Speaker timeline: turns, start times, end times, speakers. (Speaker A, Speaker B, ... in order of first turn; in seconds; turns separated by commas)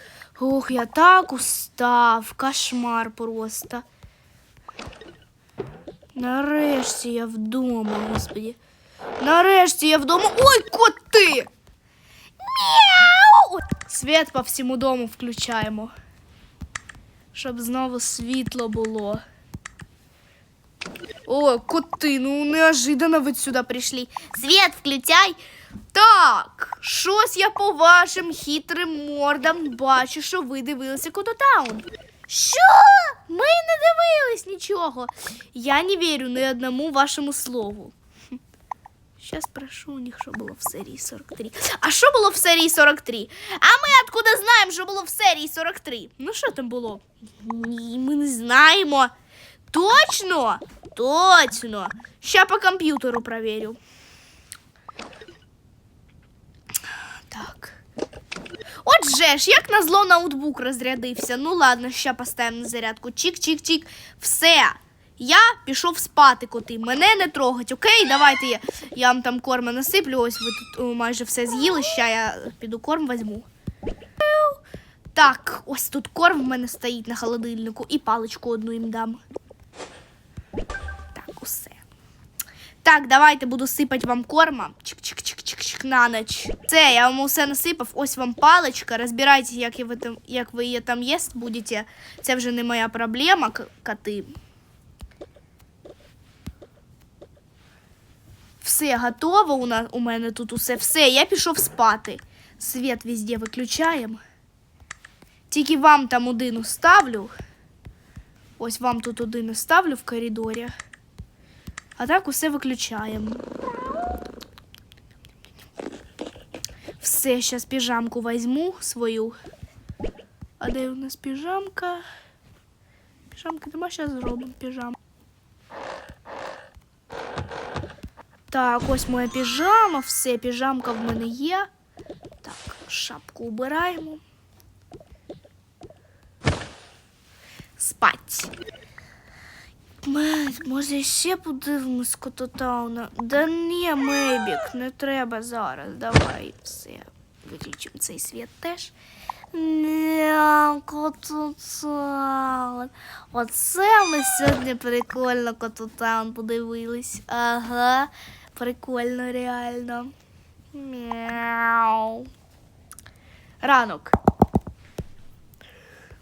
Speaker A: 0.3-3.8, Speaker A: 6.1-8.6, Speaker A: 9.2-11.5, Speaker A: 12.4-15.9, Speaker A: 17.3-19.2, Speaker A: 21.2-25.4, Speaker A: 25.9-37.9, Speaker A: 39.2-49.1, Speaker A: 49.7-53.8, Speaker A: 57.3-57.8, Speaker A: 58.8-73.5, Speaker A: 74.2-74.6, Speaker A: 75.1-79.2, Speaker A: 81.1-81.8, Speaker A: 82.8-94.3, Speaker A: 98.6-104.2, Speaker A: 105.5-107.3, Speaker A: 108.6-110.7, Speaker A: 112.0-113.5, Speaker A: 117.0-119.3, Speaker A: 120.6-122.0, Speaker A: 123.3-125.0, Speaker A: 128.5-131.7, Speaker A: 132.4-134.2, Speaker A: 137.8-138.5, Speaker A: 140.0-148.9, Speaker A: 149.5-160.1, Speaker A: 160.7-162.3, Speaker A: 163.6-164.2